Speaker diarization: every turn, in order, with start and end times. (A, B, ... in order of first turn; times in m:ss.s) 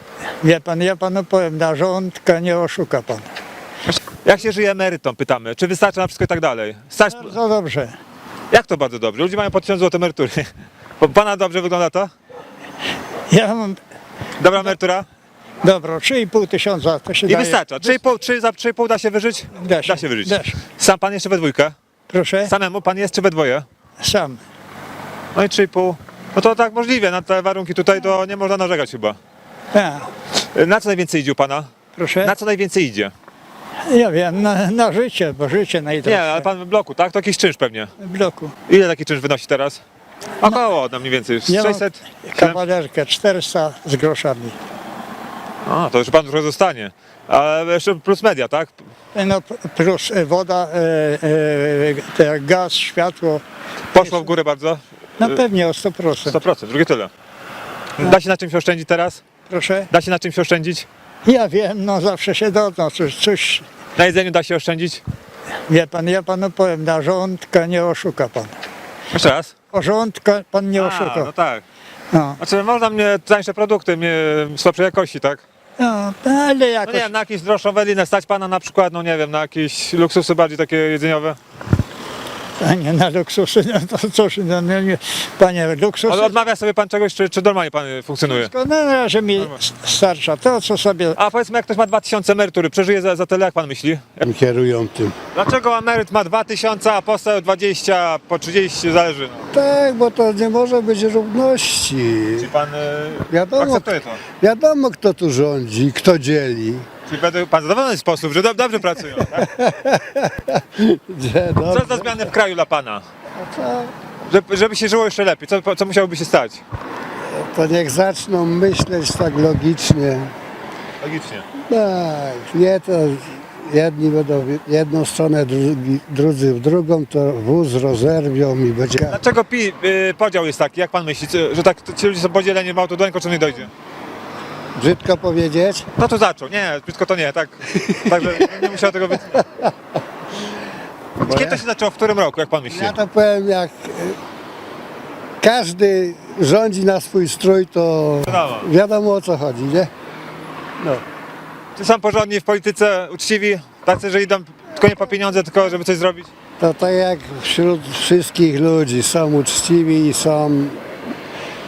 0:00.4-0:03.2 A
0:03.8-0:07.3 B
0:07.2-0:08.0 A
0:08.5-0:10.5 B
0:11.0-0:12.1 B
0:13.3-0:13.8 A
0:14.4-0:15.1 B
0:15.6-0:17.7 A
0:17.2-0:21.7 B
0:19.6-0:20.6 A
0:22.1-0:22.5 A
0:22.4-0:23.6 B
0:24.0-0:24.4 A
0:25.3-0:29.2 B
0:29.7-0:30.0 A
0:30.4-0:31.7 B
0:32.0-0:32.3 A
0:32.2-0:33.1 B
0:33.8-0:36.4 A
0:36.0-0:37.9 B
0:38.0-0:38.5 A
0:38.7-0:39.8 B
0:40.4-0:42.6 B
0:41.5-0:44.5 A
0:45.6-0:48.8 B
0:49.1-0:53.4 A
0:53.9-0:55.4 B
0:54.0-0:54.3 A
0:55.2-0:56.4 A
0:56.2-0:57.1 B
0:58.0-0:59.2 B
0:59.5-0:59.8 A
0:59.9-1:00.8 B
1:01.2-1:03.6 A
1:04.0-1:05.0 B
1:05.7-1:08.5 A
1:09.1-1:09.5 B
1:09.7-1:11.3 A
1:10.8-1:11.6 B
1:12.4-1:15.4 B
1:15.8-1:17.1 A
1:16.8-1:21.4 B
1:22.6-1:26.2 A
1:26.0-1:28.5 B
1:28.3-1:31.2 A
1:29.3-1:29.6 B
1:31.1-1:34.2 B
1:34.2-1:35.1 C
1:35.3-1:39.4 B
1:39.5-1:42.5 C
1:42.4-1:44.2 B
1:43.3-1:46.8 C
1:47.1-1:49.5 B
1:49.3-1:52.3 C
1:51.7-1:53.0 B
1:53.4-1:53.9 C
1:54.3-1:56.6 B
1:57.3-2:00.3 C
2:01.0-2:01.4 B
2:01.7-2:09.2 C
2:09.1-2:13.7 B
2:14.7-2:15.8 C
2:16.0-2:19.4 B
2:18.1-2:18.4 C
2:21.2-2:21.6 C
2:21.3-2:23.0 B
2:22.7-2:24.2 C
2:25.4-2:29.9 C
2:28.2-2:28.7 B
2:31.8-2:36.3 B
2:36.6-2:40.8 C